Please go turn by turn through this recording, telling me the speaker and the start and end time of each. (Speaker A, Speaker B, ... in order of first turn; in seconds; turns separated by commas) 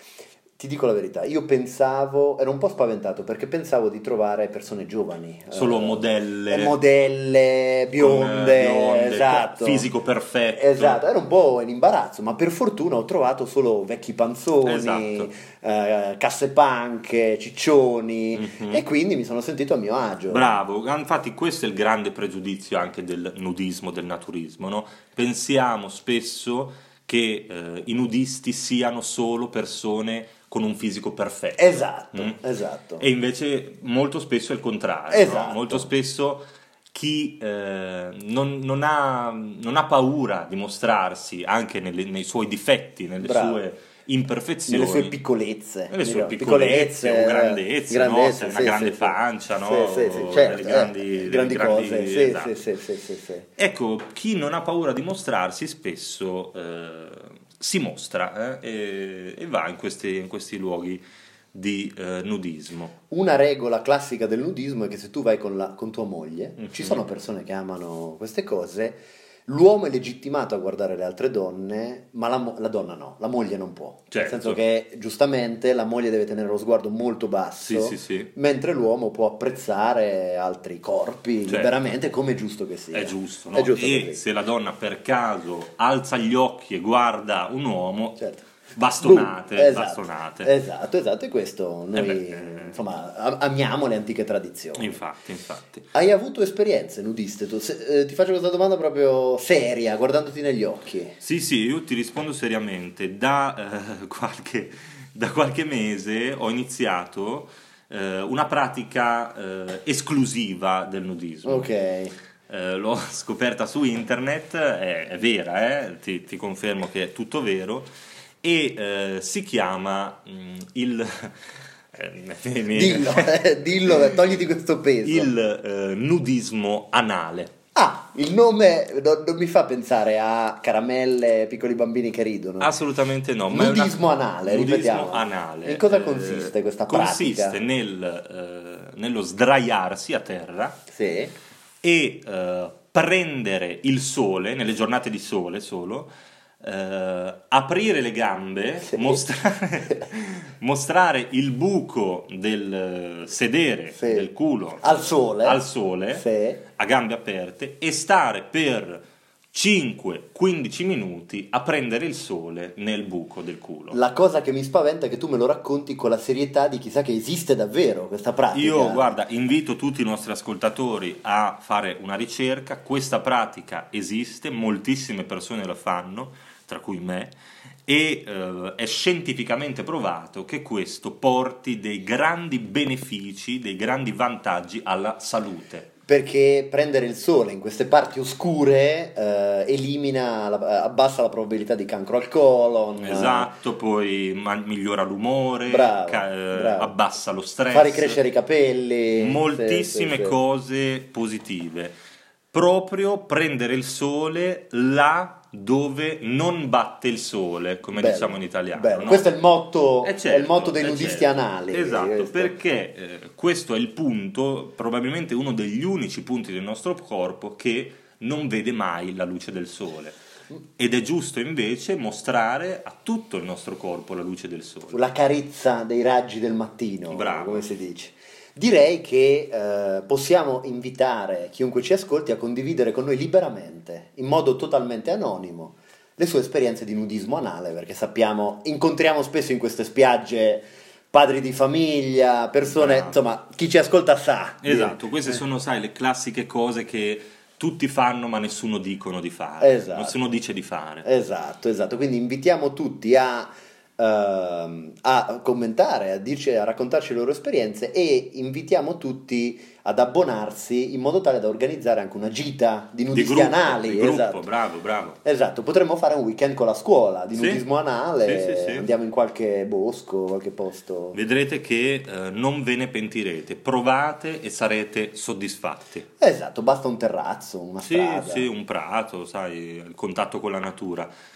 Speaker A: 0.6-9.9, Speaker B: 5.5-6.8, Speaker B: 8.0-11.0, Speaker A: 10.6-20.6, Speaker B: 14.6-15.3, Speaker B: 18.3-18.8, Speaker B: 20.3-32.4, Speaker A: 31.6-33.0, Speaker B: 33.0-45.2, Speaker A: 35.1-35.9, Speaker A: 43.2-43.6, Speaker A: 44.7-53.5, Speaker B: 45.9-52.6, Speaker B: 53.6-62.9, Speaker A: 63.1-84.2, Speaker B: 66.6-67.0, Speaker B: 74.1-74.6, Speaker B: 77.6-78.3, Speaker B: 81.5-81.7, Speaker B: 82.9-90.5, Speaker A: 88.2-88.5, Speaker A: 89.0-95.0, Speaker B: 92.0-92.8, Speaker B: 94.8-95.9, Speaker A: 95.9-101.2, Speaker B: 101.2-111.7, Speaker A: 111.5-112.2, Speaker B: 112.5-117.9, Speaker B: 118.4-124.4, Speaker A: 122.7-125.3, Speaker B: 125.0-127.5, Speaker A: 127.8-132.8, Speaker B: 132.6-140.8, Speaker A: 133.5-137.6, Speaker A: 140.9-141.3, Speaker B: 141.8-146.1, Speaker B: 146.6-164.0, Speaker A: 148.9-149.2, Speaker A: 154.0-156.6, Speaker A: 163.9-169.2, Speaker B: 168.5-185.9, Speaker A: 186.1-193.5, Speaker B: 193.0-198.2, Speaker A: 195.7-196.9, Speaker A: 197.7-200.4, Speaker B: 199.2-202.0, Speaker B: 202.5-209.3, Speaker A: 207.9-212.6, Speaker B: 210.0-220.2, Speaker B: 220.8-225.0, Speaker A: 224.9-245.4, Speaker B: 227.1-227.7, Speaker B: 242.7-243.2, Speaker B: 244.6-251.1, Speaker A: 249.6-250.2, Speaker A: 251.0-264.5, Speaker B: 263.1-265.2, Speaker A: 265.2-271.2, Speaker B: 267.3-267.6, Speaker B: 268.2-268.9, Speaker B: 271.1-276.1, Speaker A: 276.2-278.5, Speaker B: 277.8-281.1